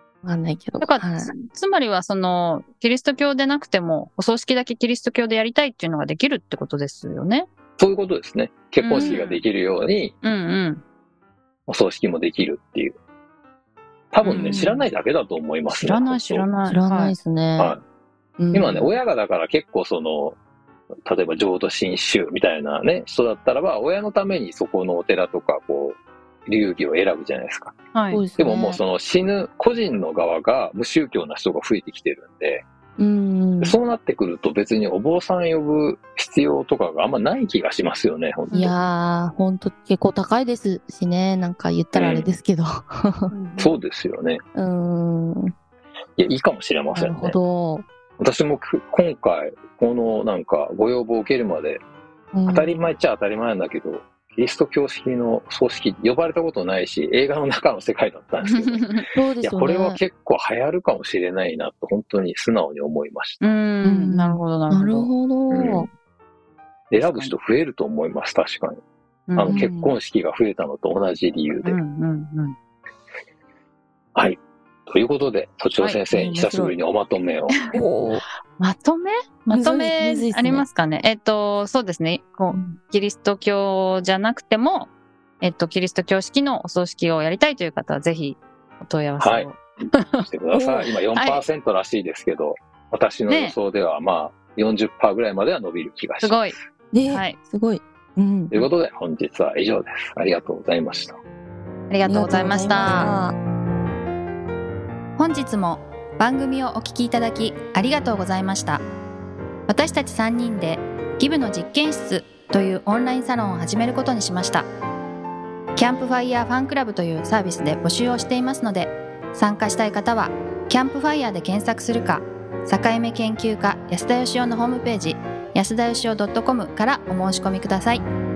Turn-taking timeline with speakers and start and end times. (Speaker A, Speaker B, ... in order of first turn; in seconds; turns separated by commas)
Speaker A: 0.2-1.3, Speaker B: 0.8-7.5, Speaker C: 7.8-10.1, Speaker B: 8.8-9.4, Speaker A: 8.9-9.2, Speaker B: 10.2-10.8, Speaker C: 11.7-13.0, Speaker C: 14.1-16.4, Speaker B: 14.2-14.7, Speaker A: 14.4-14.9, Speaker B: 15.7-17.1, Speaker A: 16.6-17.8, Speaker A: 18.4-18.9, Speaker C: 18.5-20.4, Speaker C: 21.1-27.8, Speaker B: 27.9-28.2, Speaker A: 28.1-28.8, Speaker C: 28.4-32.6, Speaker A: 33.0-33.8, Speaker C: 33.6-38.7, Speaker B: 38.5-38.8, Speaker A: 38.5-43.3, Speaker C: 41.9-42.3, Speaker B: 43.3-43.8, Speaker C: 43.6-44.4, Speaker A: 44.5-45.5, Speaker C: 46.2-47.4, Speaker A: 46.9-47.8, Speaker C: 48.2-51.8, Speaker A: 52.3-52.7, Speaker C: 52.5-63.5, Speaker B: 58.4-59.0, Speaker A: 59.1-60.0, Speaker B: 63.4-65.1, Speaker A: 63.8-65.9, Speaker C: 65.5-65.9, Speaker C: 66.9-68.8, Speaker B: 67.0-67.3, Speaker B: 69.3-69.7, Speaker C: 69.3-71.8, Speaker A: 69.5-69.9, Speaker B: 71.6-72.5, Speaker C: 74.1-77.5, Speaker A: 76.1-76.7, Speaker A: 77.7-78.2, Speaker B: 78.6-84.9, Speaker A: 79.5-80.7, Speaker B: 85.4-91.4, Speaker C: 89.2-89.5, Speaker C: 90.2-96.5, Speaker B: 93.3-93.5, Speaker B: 96.2-96.5, Speaker A: 96.9-98.7, Speaker B: 97.1-97.4, Speaker C: 98.5-101.2, Speaker B: 101.9-103.1, Speaker A: 102.0-103.4, Speaker B: 105.2-108.8, Speaker B: 109.7-114.7, Speaker B: 115.7-128.0